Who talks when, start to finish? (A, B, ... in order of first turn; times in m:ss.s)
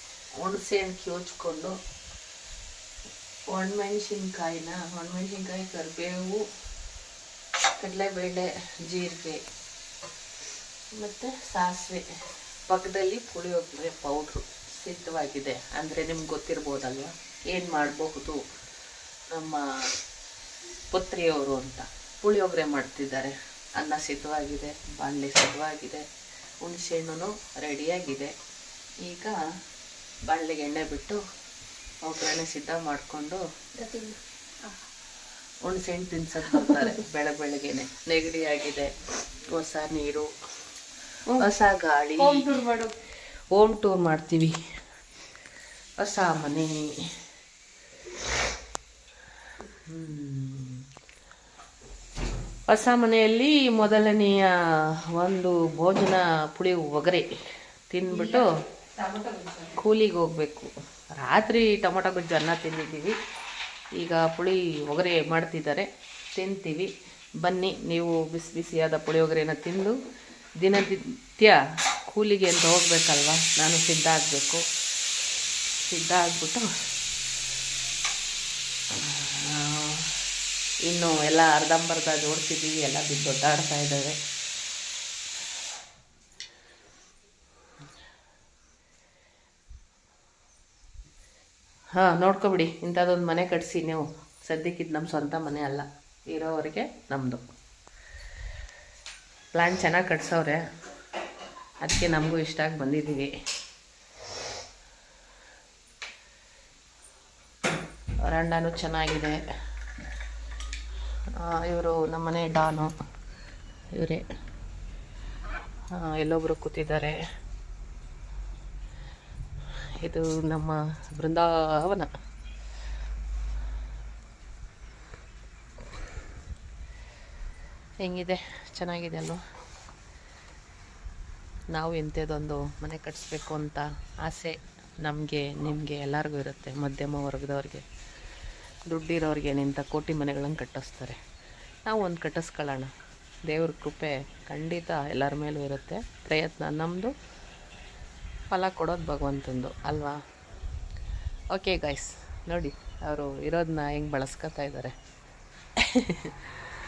0:00.4-0:01.7 A
0:03.5-0:06.4 A
0:07.8-0:09.4 A
0:11.0-0:12.0 A
0:12.7-0:18.4 A
0:19.3-0:19.6 A
0:20.9-0:26.0 A
0:26.6-0:28.3 A
0:29.0-0:29.4 A
0:30.3-0:31.2 A
0:32.0-0:33.4 A
0:33.8-0:34.2 B
0:35.6-0:38.9 A
0:36.5-0:36.9 B
0:39.5-0:40.3 A
0:41.4-0:42.6 A
0:42.2-0:42.9 B
0:43.5-0:44.5 A
0:46.0-0:46.9 A
0:49.9-0:50.7 A
0:52.7-0:54.4 A
0:55.2-0:57.2 A
0:57.9-0:58.4 A
0:58.1-0:58.4 B
0:59.0-0:59.8 B
0:59.8-1:03.1 A
1:04.0-1:06.9 A
1:07.4-1:09.9 A
1:10.6-1:11.6 A
1:12.1-1:14.6 A
1:15.9-1:16.6 A
1:19.0-1:20.1 A
1:20.9-1:24.2 A
1:32.0-1:37.4 A
1:39.5-1:40.6 A
1:41.8-1:43.3 A
1:48.2-1:49.4 A
1:51.4-1:52.9 A
1:54.0-1:54.2 A
1:55.9-1:57.2 A
2:00.0-2:02.1 A
2:08.0-2:09.4 A
2:11.7-2:17.8 A
2:18.9-2:21.2 A
2:21.8-2:22.9 A
2:23.5-2:27.1 A
2:28.5-2:30.2 A
2:31.5-2:34.9 A
2:35.8-2:36.3 A